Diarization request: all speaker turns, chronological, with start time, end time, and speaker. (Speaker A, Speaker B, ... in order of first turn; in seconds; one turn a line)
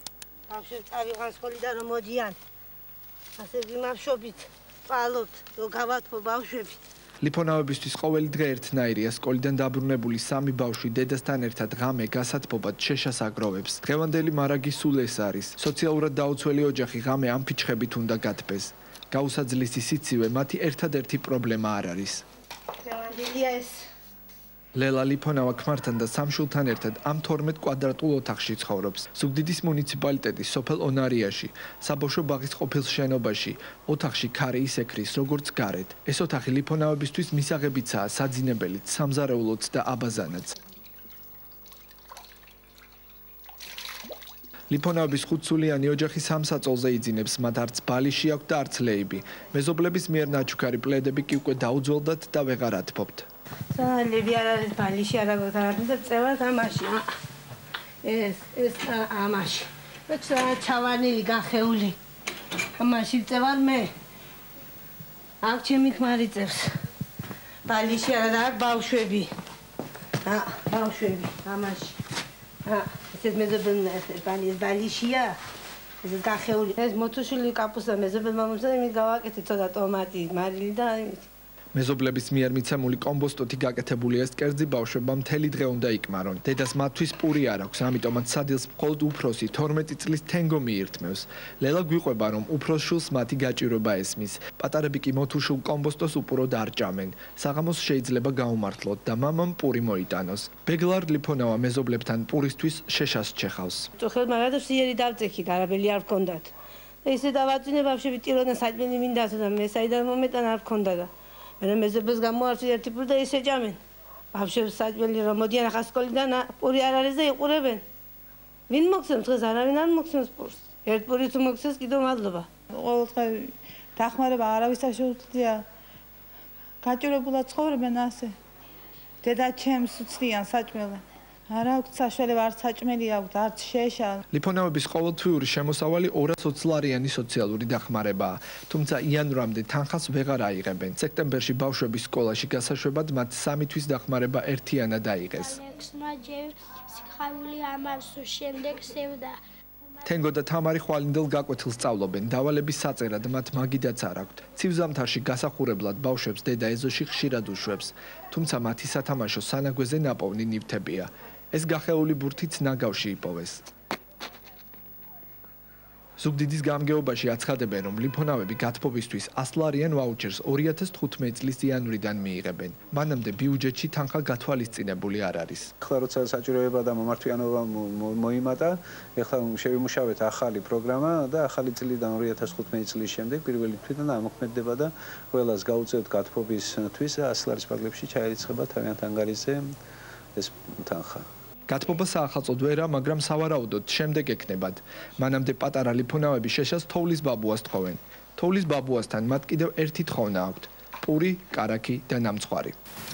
Speaker A: 0.5-2.4
Speaker A: 3.4-6.8
Speaker B: 7.2-22.2
Speaker A: 22.8-23.8
Speaker B: 24.8-40.6
Speaker B: 44.7-53.3
Speaker A: 53.7-57.1
Speaker A: 58.0-62.0
Speaker A: 62.8-63.9
Speaker A: 65.4-66.7
Speaker A: 67.7-69.3
Speaker A: 70.2-72.0
Speaker A: 72.7-75.4
Speaker A: 76.0-81.3
Speaker B: 81.7-103.9
Speaker A: 104.0-106.5
Speaker A: 107.0-113.8
Speaker A: 114.3-117.8
Speaker A: 118.7-122.5
Speaker C: 122.8-125.6
Speaker C: 126.8-128.3
Speaker C: 129.2-134.2
Speaker B: 134.3-145.6
Speaker D: 145.5-149.4
Speaker B: 150.0-163.7
Speaker B: 166.2-175.7
Speaker E: 175.8-189.7
Speaker E: 190.3-191.3
Speaker B: 191.7-202.8